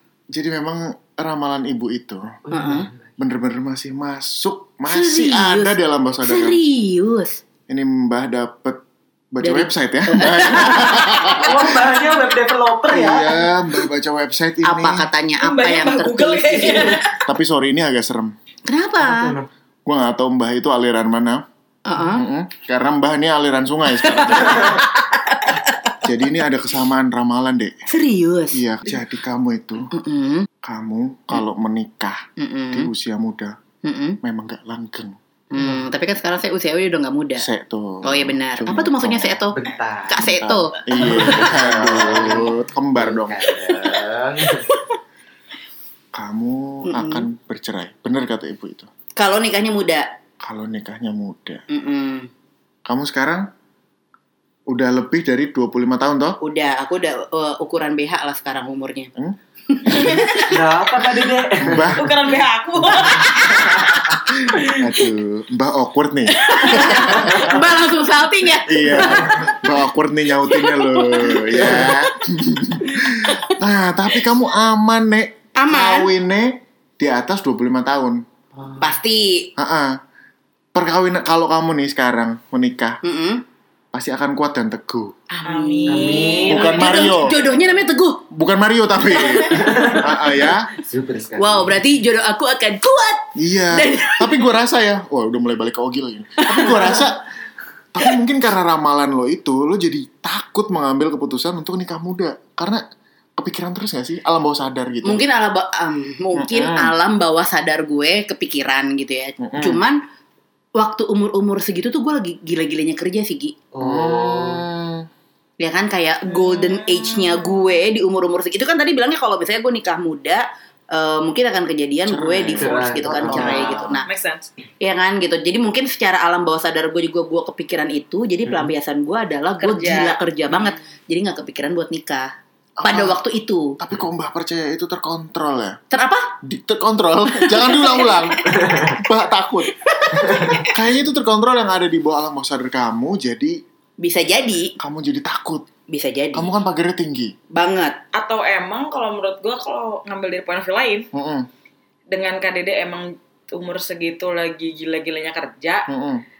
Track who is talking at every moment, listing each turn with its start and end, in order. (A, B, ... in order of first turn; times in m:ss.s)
0:00.3-0:02.4 A
0:02.5-0:03.1 B
0:02.5-0:02.9 C
0:03.2-0:06.6 A
0:04.9-0:07.4 C
0:07.7-0:08.8 A
0:09.3-0:11.8 A
0:09.4-0:11.5 C
0:11.3-0:13.4 B
0:12.9-0:15.1 A
0:14.6-0:17.0 C
0:15.4-0:17.1 D
0:17.2-0:18.3 A
0:18.6-0:19.4 C
0:19.0-0:19.5 B
0:19.8-0:21.4 A
0:21.8-0:22.2 C
0:22.1-0:24.8 A
0:24.0-0:25.7 C
0:26.0-0:27.7 A
0:27.9-0:28.6 C
0:28.5-0:29.9 A
0:29.9-0:30.5 C
0:30.6-0:32.2 A
0:32.4-0:32.9 C
0:32.7-0:33.6 A
0:33.8-0:34.2 C
0:34.2-0:35.2 A
0:35.5-0:37.5 C
0:35.5-0:35.8 B
0:37.4-0:39.4 A
0:38.0-0:41.4 C
0:39.5-0:40.2 B
0:40.2-0:43.5 A
0:40.9-0:44.7 B
0:46.1-0:48.9 A
0:46.8-0:47.3 C
0:49.2-0:50.1 C
0:50.4-0:51.6 A
0:51.7-0:52.3 C
0:52.8-0:53.5 A
0:54.7-0:56.4 A
0:56.4-0:59.1 C
0:59.2-1:00.5 A
0:59.7-1:00.6 C
1:00.4-1:02.0 B
1:01.6-1:02.1 A
1:01.9-1:03.8 D
1:03.2-1:04.1 C
1:03.3-1:04.0 B
1:04.5-1:05.0 D
1:04.5-1:07.5 A
1:06.4-1:09.6 C
1:08.6-1:18.2 A
1:09.1-1:09.4 B
1:10.4-1:11.4 C
1:11.4-1:12.0 B
1:15.6-1:16.1 C
1:18.5-1:18.9 B
1:18.8-1:19.5 C
1:19.6-1:20.0 A
1:20.7-1:23.0 A
1:23.0-1:23.4 C
1:23.9-1:25.1 A
1:25.3-1:28.2 C
1:25.4-1:26.8 D
1:25.8-1:26.8 B
1:26.5-1:27.4 A
1:28.3-1:30.7 A
1:29.2-1:29.8 C
1:29.6-1:31.8 B
1:31.4-1:34.4 C
1:33.4-1:37.2 A
1:37.9-1:42.8 A
1:43.4-1:45.2 A
1:45.0-1:50.0 C
1:46.3-1:46.9 A
1:49.4-1:49.8 A
1:50.8-1:53.6 C
1:53.7-1:54.6 B
1:53.8-1:55.1 A
1:55.6-2:04.1 C
1:56.3-1:57.7 D
2:02.0-2:04.0 A
2:02.5-2:03.6 B
2:03.3-2:04.5 D
2:04.8-2:13.8 C
2:09.6-2:10.8 D
2:12.8-2:13.2 A
2:13.8-2:15.8 A
2:15.9-2:16.3 C
2:16.4-2:19.7 A
2:17.5-2:18.8 C
2:18.5-2:18.9 B
2:20.0-2:20.7 C
2:20.3-2:20.6 B
2:20.3-2:23.6 A
2:24.0-2:24.7 C
2:24.8-2:25.6 A
2:25.9-2:26.5 C
2:26.3-2:27.3 A
2:27.5-2:28.0 C
2:28.1-2:31.1 D
2:31.1-2:31.5 A
2:32.1-2:35.9 D
2:35.9-2:36.2 A